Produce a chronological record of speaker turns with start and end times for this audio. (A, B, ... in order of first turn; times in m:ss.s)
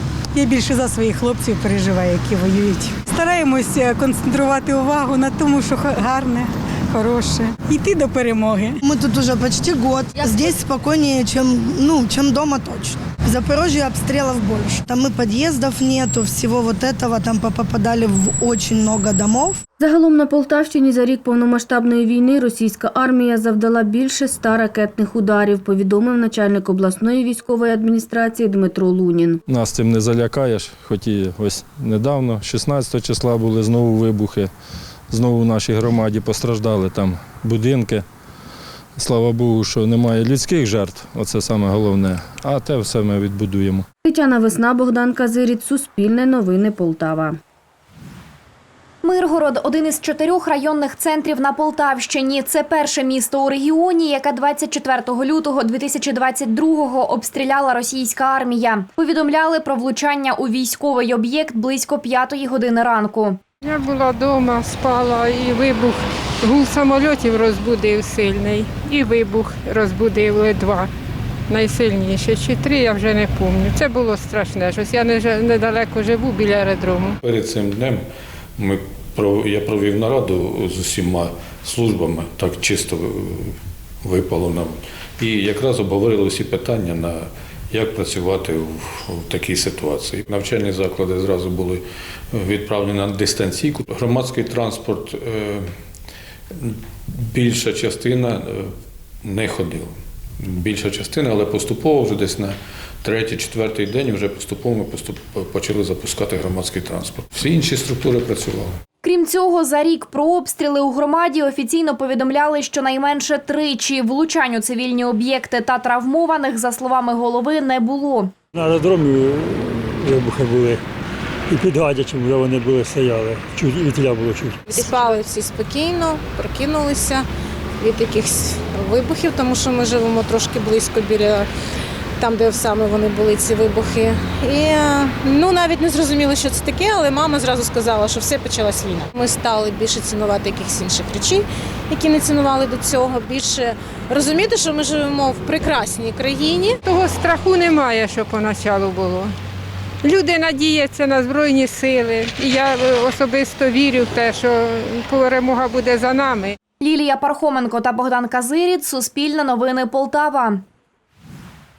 0:00.3-0:08.8 A
0:08.8-0:19.6 B
0:19.8-0:29.4 C
0:29.5-0:34.5 D
0:35.1-0:38.0 D
0:39.0-0:43.8 D
0:44.0-0:47.4 C
0:49.0-1:03.4 E
1:03.6-1:10.9 F
1:11.5-1:17.2 F
1:17.2-1:18.0 G
1:18.6-1:23.5 G
1:24.0-1:31.8 G
1:32.4-1:35.6 G
1:37.3-1:38.7 G
1:39.2-1:39.9 G
1:40.4-1:48.8 G
1:49.0-1:58.3 E
1:58.6-2:00.8 H
2:01.5-2:04.5 H
2:04.7-2:07.2 I
2:07.8-2:11.5 I
2:12.2-2:26.8 I
2:26.8-2:29.3 F
2:30.0-2:36.6 F
2:36.8-2:40.6 E